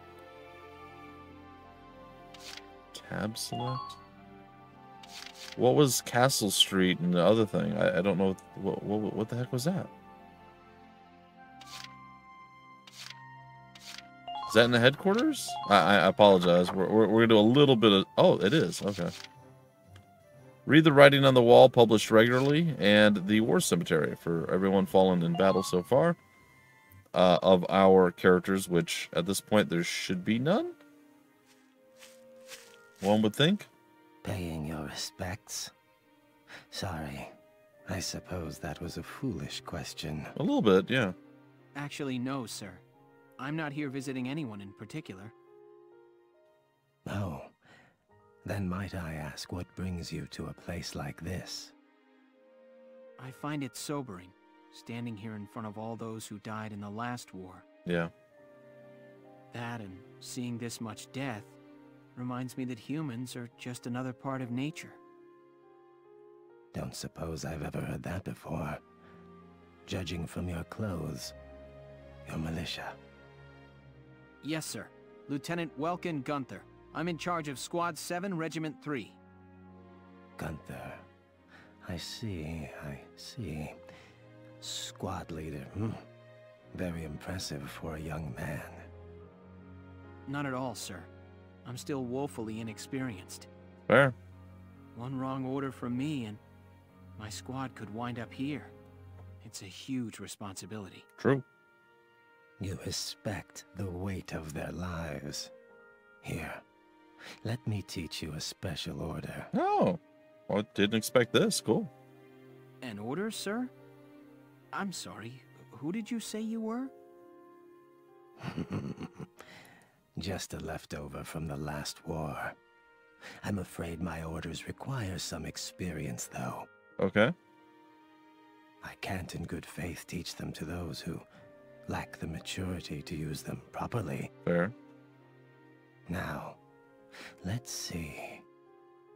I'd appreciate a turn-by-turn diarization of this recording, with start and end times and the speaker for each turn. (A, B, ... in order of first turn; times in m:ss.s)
0:02.9-0:03.8 A
0:05.6-0:09.9 A
0:14.5-0:19.1 A
0:20.6-0:26.2 A
0:27.1-0:30.8 A
0:33.0-0:33.7 A
0:34.2-0:35.7 B
0:36.7-0:37.3 B
0:37.9-0:40.3 B
0:40.4-0:41.1 A
0:41.7-0:42.8 C
0:43.4-0:45.3 C
0:47.0-0:47.6 B
0:48.4-0:51.7 B
0:53.2-0:57.6 C
0:57.8-0:58.1 A
0:59.5-1:01.6 C
1:02.2-1:05.0 C
1:06.7-1:08.8 B
1:09.8-1:11.3 B
1:12.2-1:13.0 B
1:14.4-1:19.2 C
1:20.4-1:21.0 B
1:21.8-1:23.8 B
1:24.6-1:26.0 B
1:26.7-1:28.9 B
1:30.2-1:31.1 C
1:31.6-1:33.5 C
1:33.9-1:34.2 A
1:34.9-1:36.4 C
1:37.2-1:38.7 C
1:39.4-1:41.0 C
1:41.2-1:41.4 A
1:42.6-1:45.5 B
1:46.2-1:46.6 B
1:47.4-1:49.5 B
1:49.5-1:51.9 A
1:52.8-1:53.7 C
1:54.7-1:56.9 C
1:58.4-1:59.3 B
2:00.2-2:02.6 B
2:03.4-2:06.7 B
2:07.0-2:07.3 A
2:08.8-2:11.3 B
2:11.9-2:14.3 B
2:14.4-2:14.7 A
2:16.1-2:16.6 B
2:17.4-2:18.4 B